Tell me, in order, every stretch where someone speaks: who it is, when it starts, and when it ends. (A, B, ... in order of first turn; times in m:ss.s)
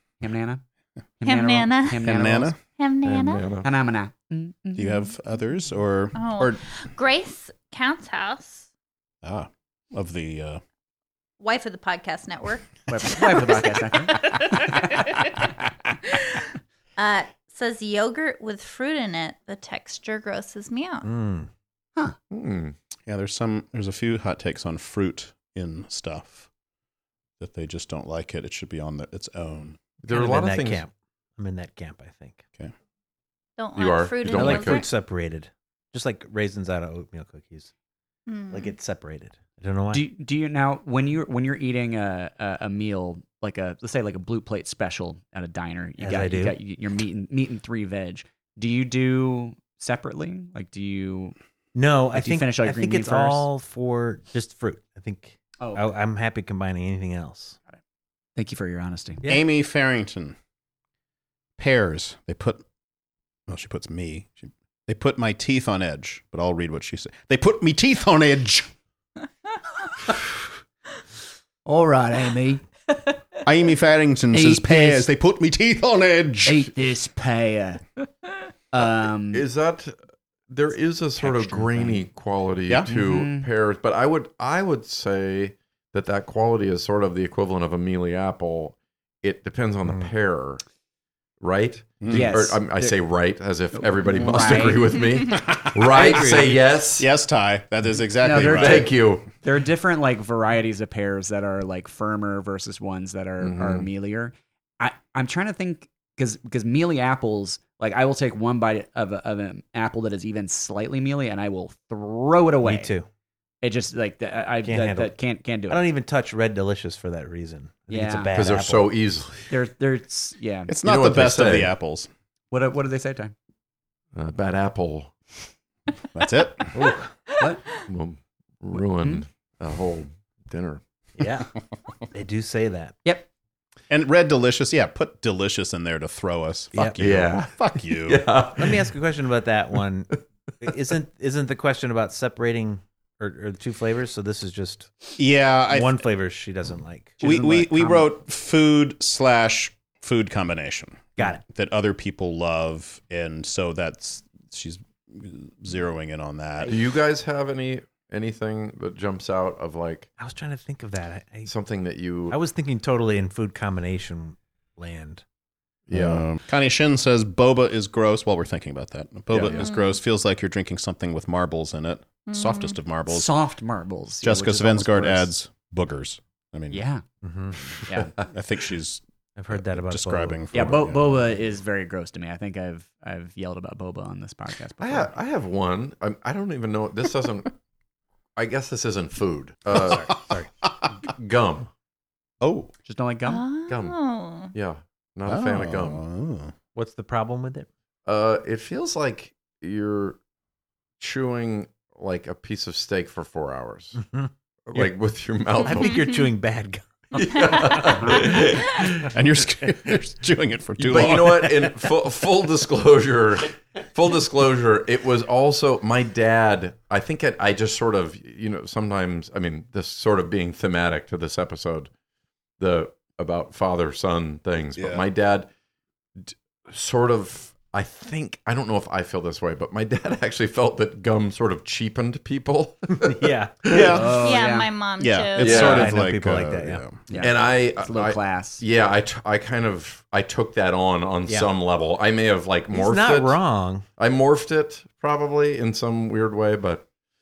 0:00.2-0:00.6 A
0:01.2-0:02.5 A
0:01.2-0:02.2 B
0:02.0-0:02.6 C
0:02.8-0:03.4 B
0:03.0-0:03.7 D
0:03.6-0:05.0 A
0:04.7-0:06.6 C
0:06.2-0:08.6 B
0:09.2-0:10.6 C
0:11.4-0:15.3 B
0:12.9-0:14.8 A
0:16.0-0:16.4 B
0:17.0-0:21.1 B
0:21.0-0:21.5 E
0:22.3-0:22.7 D
0:23.1-0:26.5 C
0:27.4-0:29.8 C
0:30.0-0:30.8 D
0:30.1-0:32.4 E
0:33.6-0:34.9 B
0:33.8-0:34.8 D
0:34.3-0:37.7 E
0:38.3-0:38.7 B
0:38.5-0:40.0 E
0:39.9-0:51.3 A
0:46.0-0:46.6 E
0:51.7-0:57.6 E
0:52.1-0:53.5 A
0:58.4-0:59.2 A
0:59.2-1:00.4 C
1:01.6-1:02.6 C
1:03.5-1:08.7 C
1:11.6-1:12.6 A
1:13.4-1:16.7 C
1:14.3-1:15.1 A
1:16.4-1:17.8 A
1:18.7-1:19.4 A
1:19.3-1:20.0 D
1:20.5-1:30.6 D
1:21.2-1:22.0 A
1:22.9-1:23.4 A
1:31.4-1:37.1 D
1:32.0-1:32.4 C
1:32.1-1:32.9 A
1:33.8-1:34.9 A
1:36.0-1:36.5 E
1:37.0-1:38.9 C
1:38.2-1:52.9 A
1:38.4-1:39.3 D
1:43.4-1:43.9 D
1:52.6-1:53.1 E
1:53.6-1:55.8 A
1:54.6-1:55.2 E
1:55.7-1:59.0 E
1:57.9-1:58.3 A
1:58.3-1:59.4 D
1:59.5-2:00.7 A
2:00.7-2:02.1 C
2:00.8-2:01.7 D
2:02.5-2:03.3 A
2:04.1-2:05.1 D
2:06.1-2:06.8 C
2:06.7-2:07.1 E
2:07.9-2:10.8 D
2:11.2-2:11.5 E
2:12.1-2:13.0 E
2:13.9-2:18.2 C
2:16.7-2:17.0 E
2:17.0-2:18.9 D
2:18.6-2:25.1 E
2:25.2-2:26.0 C
2:25.7-2:27.3 E
2:27.2-2:28.0 A
2:27.2-2:36.7 C
2:36.7-2:40.1 D
2:40.2-2:41.5 E
2:41.4-2:42.4 D
2:42.3-2:45.2 E
2:45.9-2:46.2 D
2:45.9-2:53.3 C
2:49.3-2:49.7 D
2:49.5-2:50.0 B
2:52.3-2:52.8 B
2:53.1-2:55.3 A
2:54.2-2:56.8 C
2:56.7-2:57.0 A
2:57.2-2:57.6 E
2:57.9-2:58.3 D
2:58.3-3:01.3 C
2:59.4-3:00.4 E
3:00.5-3:05.1 A
3:04.8-3:07.5 D
3:08.4-3:10.2 D
3:09.7-3:10.5 E
3:11.1-3:11.7 D
3:12.4-3:12.7 C
3:12.8-3:13.4 A
3:13.2-3:14.5 B
3:13.7-3:14.0 D
3:14.5-3:16.0 D
3:15.2-3:16.5 C
3:16.7-3:17.7 E
3:18.0-3:20.2 D
3:21.0-3:24.0 D
3:24.0-3:24.9 E
3:24.7-3:26.1 D
3:25.6-3:28.3 E
3:27.1-3:29.0 D
3:29.0-3:31.7 C
3:30.8-3:41.9 D
3:42.6-3:45.5 D
3:44.7-3:45.0 C
3:46.2-3:54.0 D
3:53.0-3:54.4 E
3:53.7-3:54.1 C
3:53.9-3:54.7 A
3:54.2-3:55.7 B
3:55.0-3:57.0 C
3:55.4-3:56.0 D
3:55.5-3:57.0 E
3:57.1-3:58.6 A
3:57.1-4:06.9 D
4:02.7-4:03.8 E